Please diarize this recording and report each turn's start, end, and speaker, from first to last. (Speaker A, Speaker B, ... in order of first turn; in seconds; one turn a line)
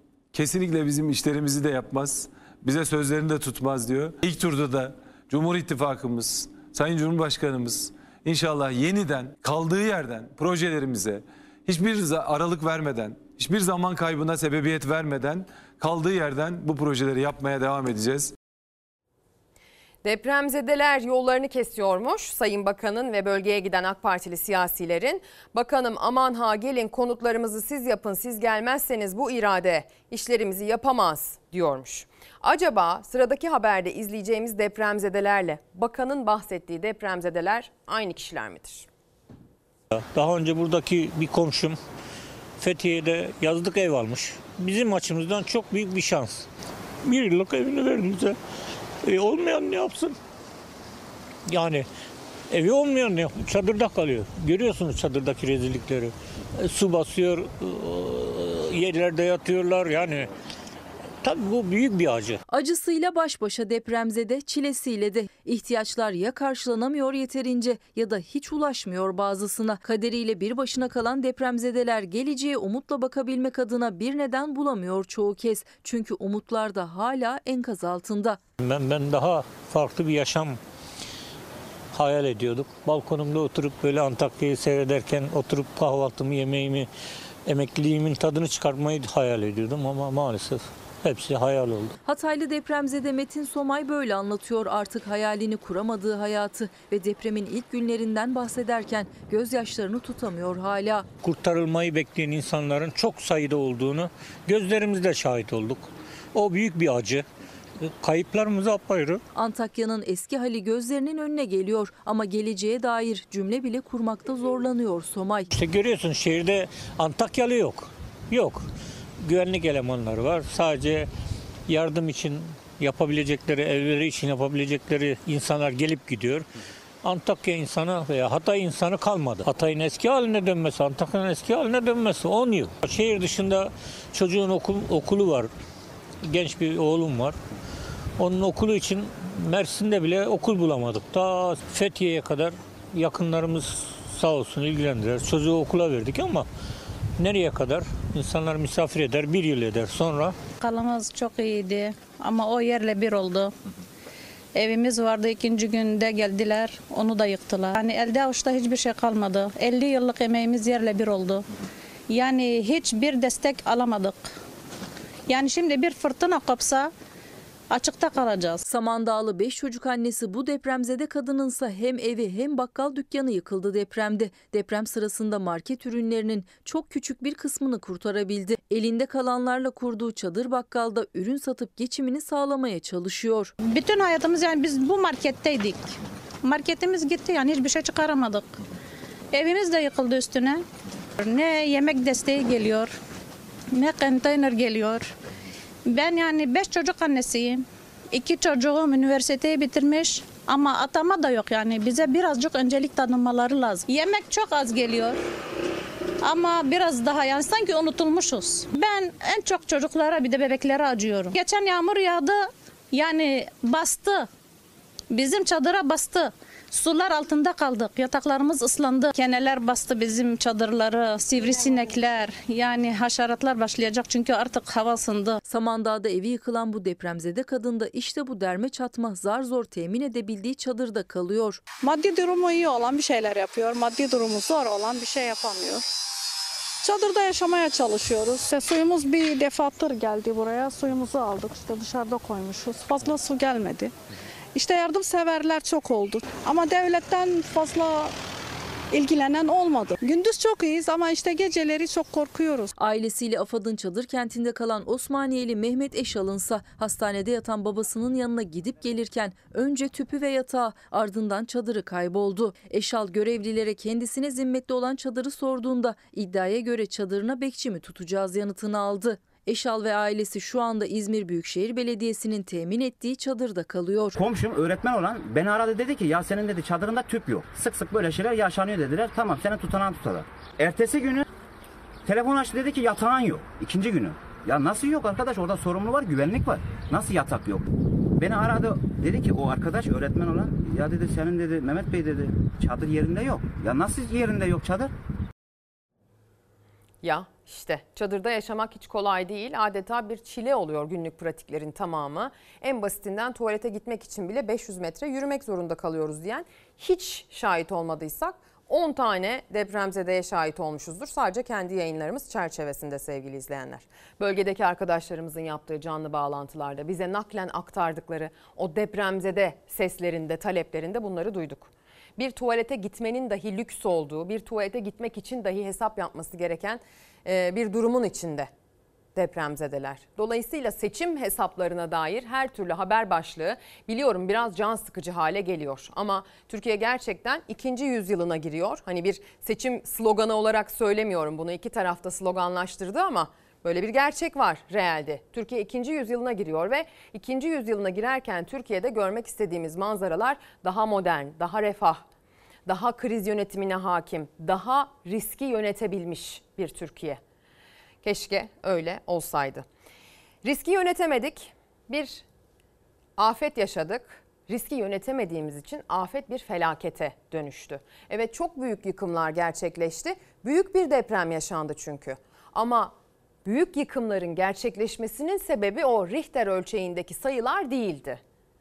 Speaker A: 0.3-18.3
Speaker B: 20.0-38.9
Speaker C: 39.9-41.8
Speaker C: 42.6-46.5
Speaker C: 47.0-48.4
Speaker C: 49.0-50.2
Speaker C: 51.5-51.9
Speaker C: 52.5-60.3
Speaker C: 61.2-62.4
Speaker D: 62.5-78.4
Speaker C: 78.6-80.6
Speaker C: 81.9-86.9
Speaker C: 87.5-91.9
Speaker D: 92.1-101.1
Speaker C: 101.2-107.3
Speaker C: 107.8-109.2
Speaker D: 109.3-115.5
Speaker C: 115.5-118.6
Speaker C: 119.2-121.1
Speaker C: 121.7-126.5
Speaker C: 127.0-135.5
Speaker C: 136.2-137.4
Speaker C: 138.2-146.5
Speaker C: 147.2-150.4
Speaker E: 150.6-153.5
Speaker E: 154.6-161.4
Speaker E: 162.1-164.3
Speaker E: 165.3-166.9
Speaker E: 167.7-168.6
Speaker D: 168.6-183.5
Speaker E: 183.6-188.5
Speaker E: 189.3-190.6
Speaker E: 191.2-192.9
Speaker E: 193.7-195.1
Speaker E: 195.9-205.2
Speaker E: 206.2-214.3
Speaker E: 215.1-225.4
Speaker D: 225.5-231.6
Speaker F: 231.8-235.8
Speaker F: 236.8-243.9
Speaker F: 244.6-248.1
Speaker F: 248.9-252.7
Speaker D: 252.8-274.2
Speaker G: 274.1-281.3
Speaker G: 282.1-294.9
Speaker B: 297.0-328.5
Speaker B: 329.1-352.1
Speaker B: 352.7-357.2
Speaker B: 358.0-359.7
Speaker B: 360.4-362.2
Speaker B: 363.2-372.9
Speaker B: 373.4-378.2